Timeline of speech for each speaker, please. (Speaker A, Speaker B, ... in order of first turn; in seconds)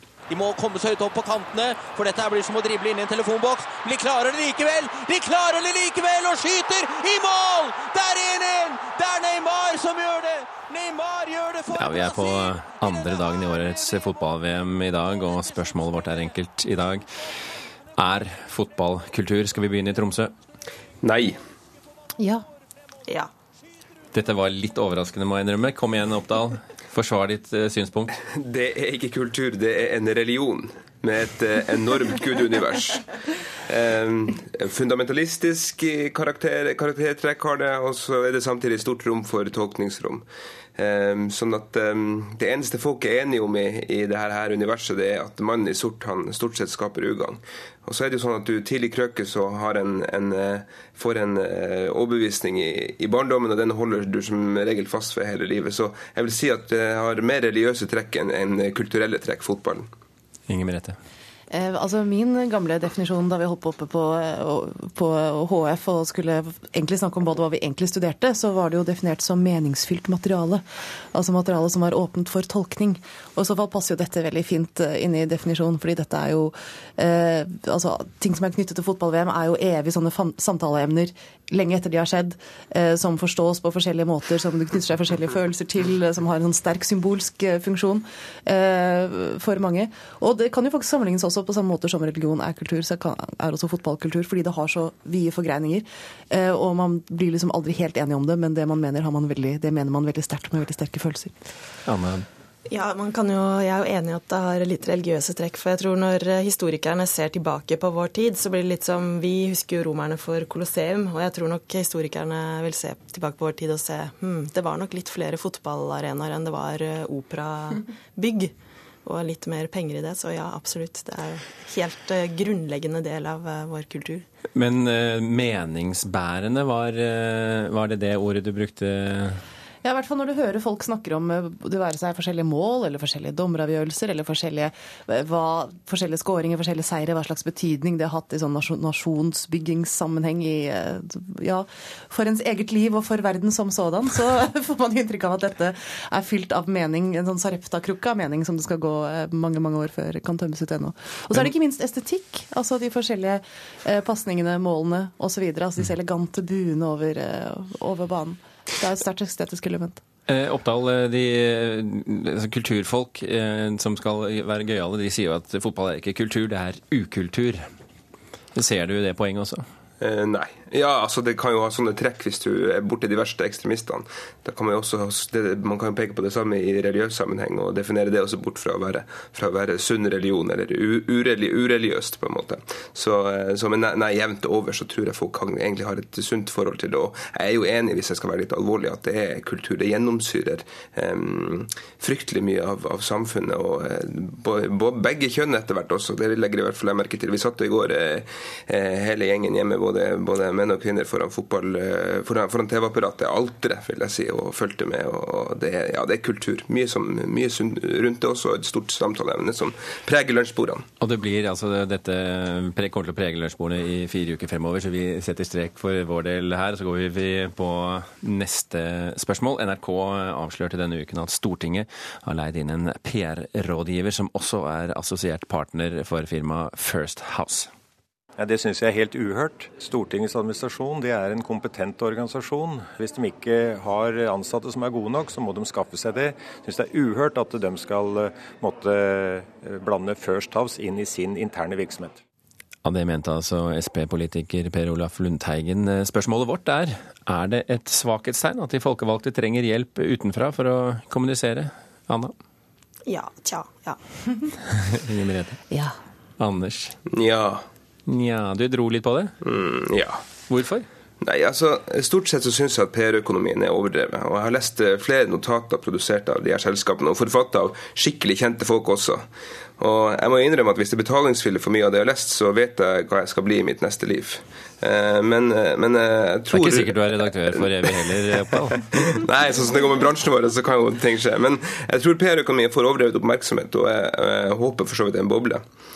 Speaker A: 0.3-12.2
Speaker B: 11.7-17.1, 18.0-20.3, 24.1-28.1, 60.5-61.0, 101.8-102.2, 124.5-129.4, 160.3-167.7, 168.5-169.6, 211.0-227.7, 242.8-252.3, 254.9-255.6, 256.4-256.9, 258.1-259.3, 260.5-260.9, 276.5-279.0
Speaker C: 21.0-21.4, 28.3-40.2, 40.8-59.9, 170.0-210.8, 257.1-257.6, 259.4-260.2, 261.2-269.3, 269.8-277.3, 279.1-285.6
Speaker D: 22.2-22.4, 61.5-101.3, 129.8-160.0, 255.7-255.9
Speaker E: 102.7-118.5, 119.0-124.2, 253.1-254.0
Speaker F: 228.4-242.2